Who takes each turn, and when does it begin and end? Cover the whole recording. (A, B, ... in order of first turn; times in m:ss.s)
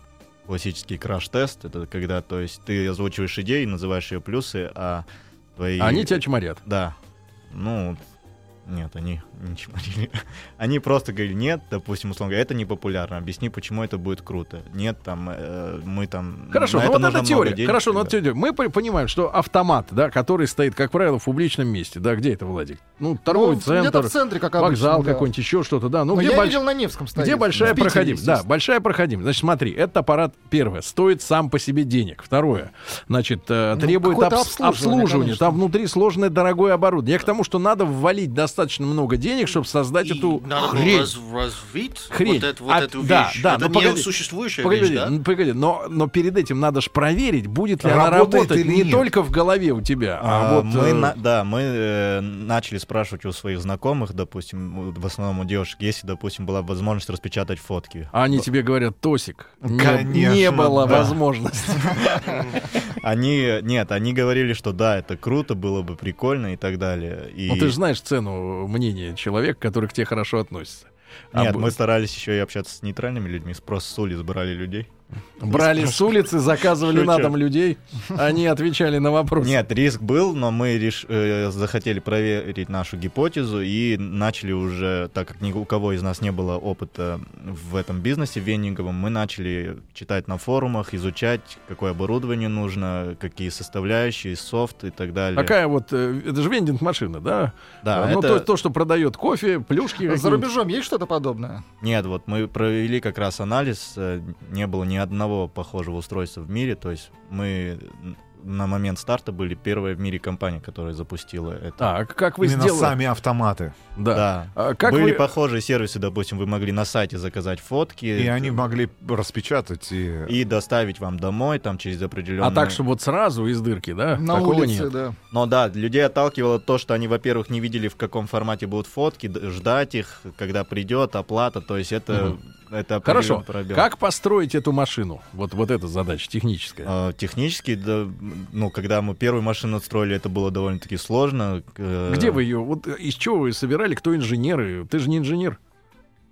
0:00.5-0:05.0 A
0:05.6-0:07.0 A
0:05.8-0:06.6 B
0:07.5-0:08.0 A
0:08.6-0:18.1 A
0:16.5-0:26.6 B
0:23.3-0:25.3 C
0:26.1-0:28.4 C
0:27.1-0:41.1 B
0:33.7-0:35.6 C
0:40.0-0:45.1 D
0:42.1-0:51.1 B
0:47.8-0:49.1 E
0:50.2-0:58.4 A
0:58.1-1:02.0 B
0:59.6-1:01.2 E
1:01.8-1:07.8 A
1:02.2-1:02.6 D
1:07.5-1:11.7 B
1:11.3-1:14.9 A
1:15.4-1:19.6 B
1:15.5-1:17.4 A
1:19.4-1:35.5 A
1:35.4-1:40.4 B
1:37.8-1:38.5 A
1:40.0-1:41.6 C
1:41.8-1:51.9 A
1:51.8-1:53.0 B
1:52.4-1:53.7 E
1:54.0-1:55.3 B
1:54.1-1:58.6 A
1:58.2-2:00.4 E
2:00.3-2:02.8 A
2:02.4-2:04.9 B
2:04.1-2:05.2 C
2:05.3-2:13.9 A
2:13.0-2:16.9 B
2:16.8-2:22.4 A
2:22.1-2:25.6 B